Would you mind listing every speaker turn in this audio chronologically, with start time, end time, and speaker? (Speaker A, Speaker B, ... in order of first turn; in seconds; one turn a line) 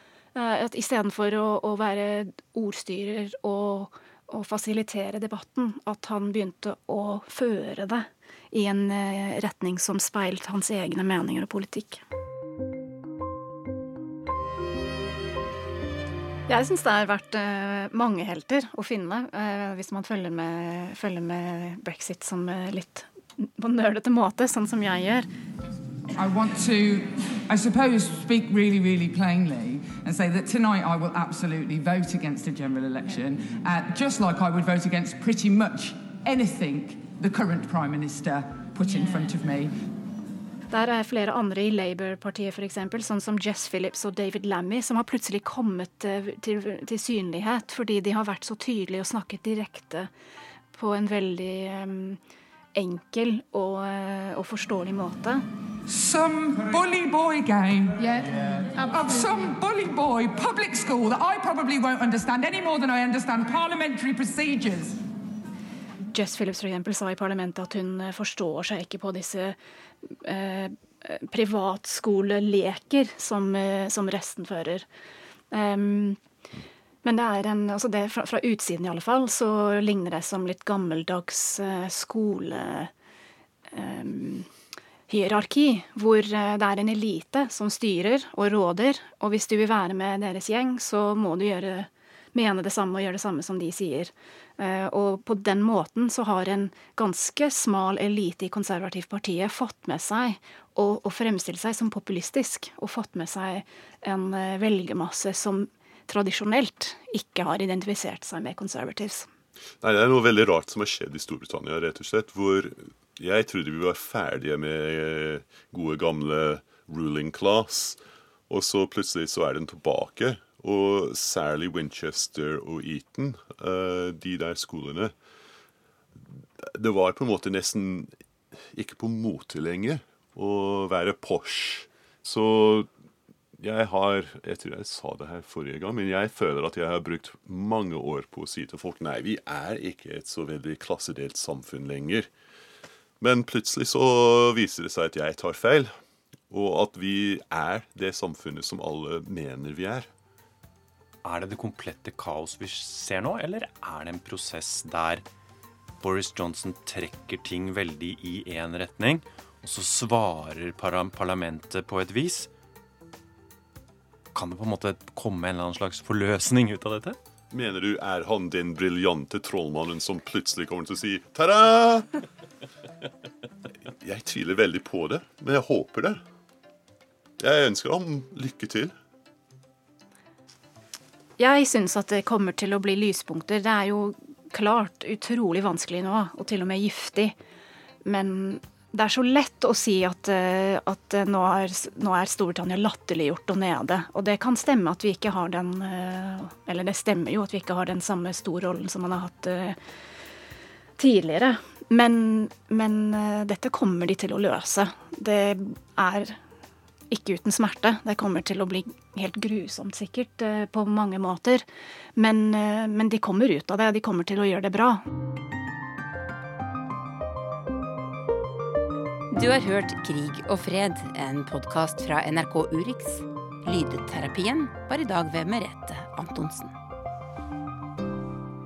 Speaker A: 0.3-12.0
Speaker A: 16.5-25.3
Speaker B: 26.1-39.7
Speaker A: 40.7-50.1
Speaker A: 50.7-52.2
Speaker A: 52.7-55.4
Speaker B: 55.9-65.0
Speaker A: 66.1-69.6
Speaker A: 70.1-74.8
Speaker A: 75.5-76.2
Speaker A: 77.0-82.9
Speaker A: 83.7-84.5
Speaker A: 85.1-109.3
Speaker C: 109.8-125.1
Speaker C: 126.6-132.9
Speaker C: 133.6-142.3
Speaker C: 143.2-145.9
Speaker C: 146.5-150.1
Speaker D: 151.2-155.2
Speaker D: 156.0-162.5
Speaker D: 164.3-167.2
Speaker C: 167.5-172.1
Speaker C: 174.0-176.2
Speaker C: 177.4-178.9
Speaker A: 181.4-187.3
Speaker A: 188.0-199.8
Speaker A: 201.0-206.4
Speaker A: 207.1-211.6
Speaker A: 212.2-215.0
Speaker E: 219.3-226.7